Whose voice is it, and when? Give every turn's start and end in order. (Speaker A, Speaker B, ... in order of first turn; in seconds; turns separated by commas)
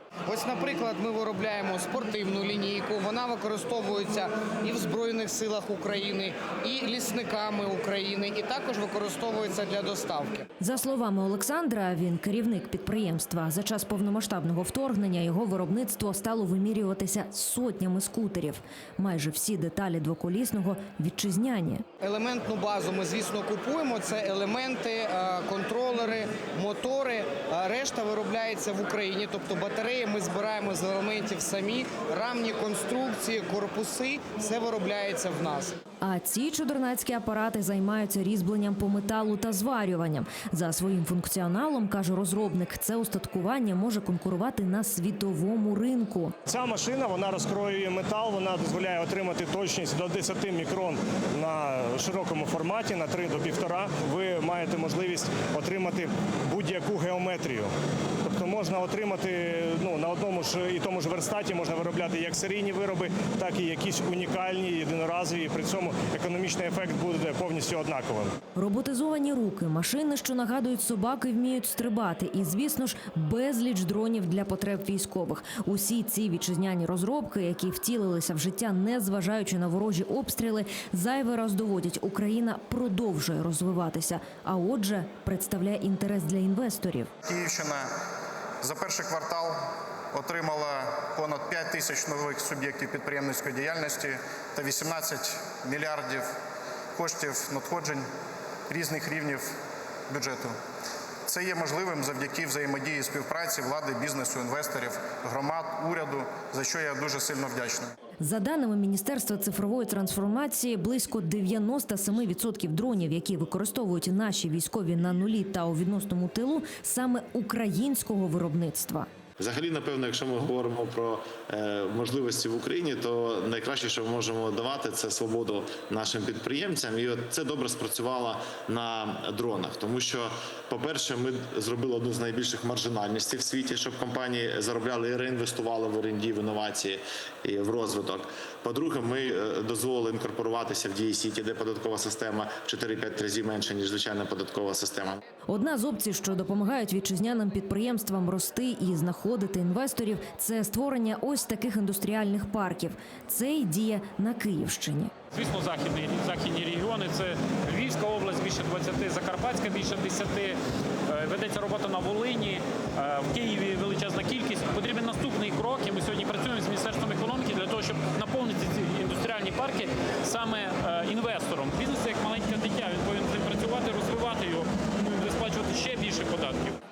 Speaker A: 0.3-10.5, Speaker B: 10.6-21.8, Speaker A: 22.0-35.8, Speaker B: 36.0-46.3, Speaker C: 46.5-57.7, Speaker C: 58.2-68.4, Speaker B: 68.6-87.1, Speaker D: 87.2-87.9, Speaker D: 88.6-96.3, Speaker D: 97.0-98.0, Speaker D: 98.7-99.5, Speaker D: 100.1-100.5, Speaker D: 101.3-107.9, Speaker B: 108.2-119.0, Speaker E: 119.4-145.2, Speaker B: 145.5-155.1, Speaker F: 155.3-160.6, Speaker F: 161.1-176.8